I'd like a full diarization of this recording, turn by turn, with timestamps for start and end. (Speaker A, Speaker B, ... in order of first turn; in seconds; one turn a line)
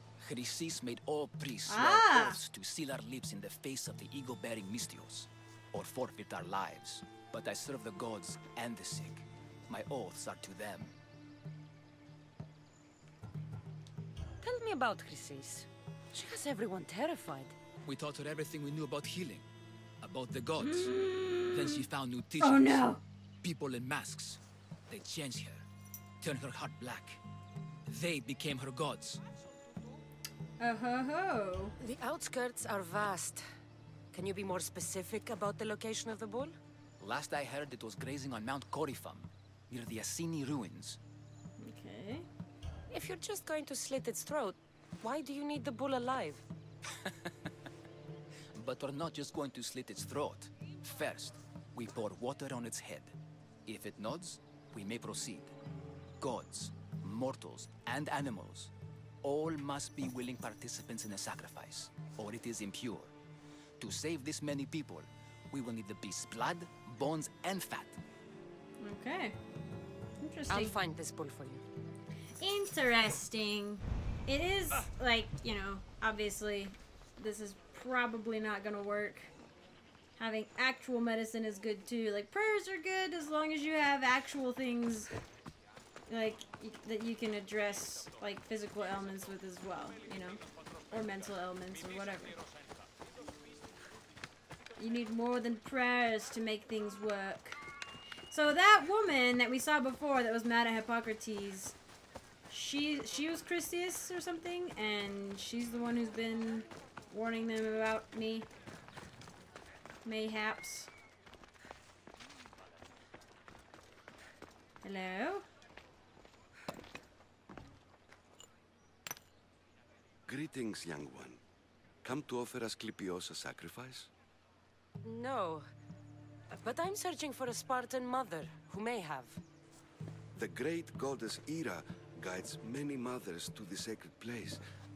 Speaker A: 0.2-10.9
Speaker B: 1.7-2.4
Speaker C: 14.4-17.6
Speaker A: 17.8-19.4
Speaker A: 20.0-20.9
Speaker B: 20.6-21.8
Speaker A: 21.5-25.6
Speaker B: 22.4-23.0
Speaker A: 26.2-27.2
Speaker A: 27.9-29.2
Speaker B: 30.6-31.7
Speaker C: 31.8-33.4
Speaker C: 34.1-36.5
Speaker A: 37.0-41.0
Speaker B: 41.6-42.2
Speaker C: 42.9-46.5
Speaker A: 48.5-53.1
Speaker A: 53.6-55.5
Speaker A: 56.2-58.7
Speaker A: 59.2-63.1
Speaker A: 63.8-68.0
Speaker B: 68.8-69.4
Speaker B: 70.2-70.8
Speaker C: 70.5-71.6
Speaker B: 72.4-79.3
Speaker B: 80.2-85.1
Speaker B: 86.1-90.4
Speaker B: 90.9-92.4
Speaker B: 94.8-97.6
Speaker B: 98.3-101.8
Speaker B: 102.5-108.5
Speaker B: 110.0-110.9
Speaker B: 114.8-115.4
Speaker D: 120.3-121.4
Speaker D: 122.0-124.1
Speaker C: 125.0-125.7
Speaker C: 126.5-129.4
Speaker D: 130.3-134.6